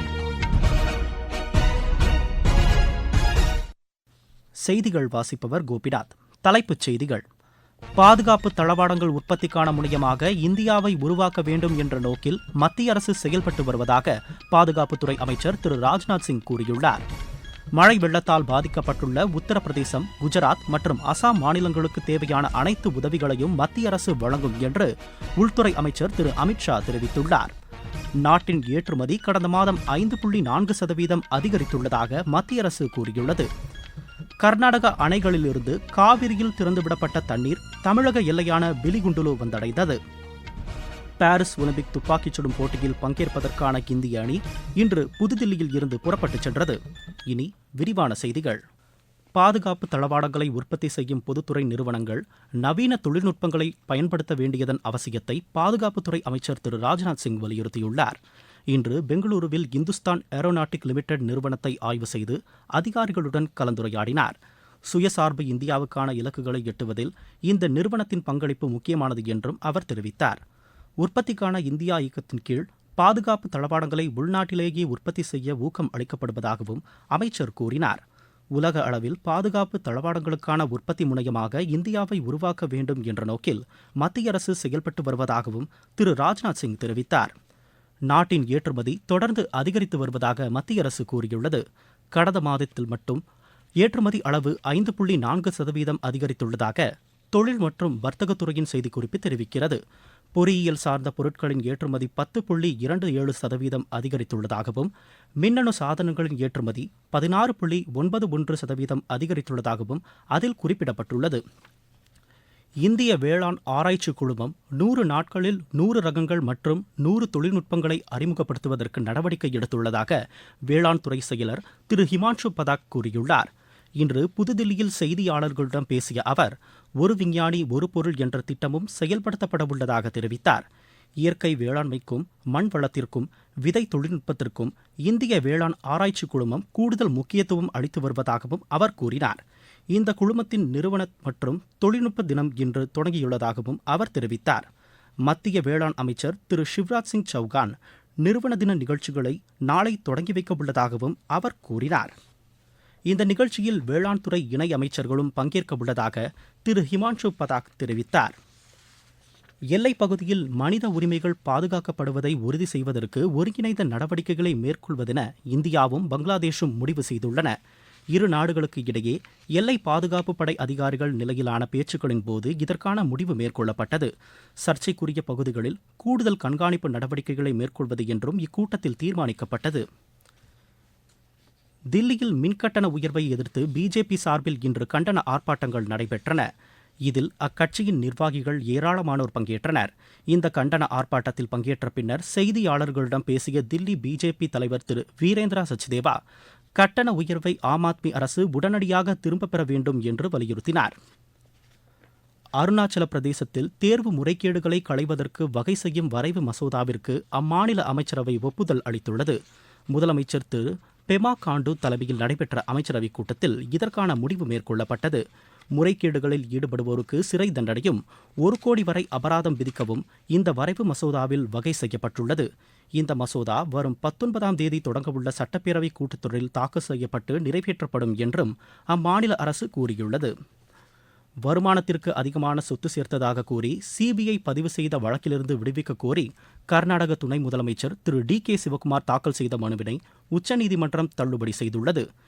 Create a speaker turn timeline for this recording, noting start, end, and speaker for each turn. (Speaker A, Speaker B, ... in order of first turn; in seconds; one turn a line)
Speaker A: 4.6-7.2
Speaker A: 8.0-17.0
Speaker A: 17.8-27.5
Speaker A: 28.2-33.5
Speaker A: 34.4-40.0
Speaker A: 41.2-48.6
Speaker A: 49.4-58.2
Speaker A: 58.7-64.3
Speaker A: 64.9-70.4
Speaker A: 71.0-78.0
Speaker A: 78.5-87.3
Speaker A: 88.1-91.6
Speaker A: 92.1-93.2
Speaker A: 93.8-99.8
Speaker A: 100.3-104.9
Speaker A: 105.4-111.4
Speaker A: 112.8-120.2
Speaker A: 120.7-130.6
Speaker A: 131.2-139.4
Speaker A: 139.9-144.7
Speaker A: 145.3-152.1
Speaker A: 153.1-158.3
Speaker A: 159.7-167.5
Speaker A: 168.1-174.1
Speaker A: 174.6-179.8
Speaker A: 181.9-186.4
Speaker A: 187.1-196.2
Speaker A: 196.8-200.9
Speaker A: 202.6-209.4
Speaker A: 209.9-215.2
Speaker A: 215.8-230.3
Speaker A: 231.4-242.0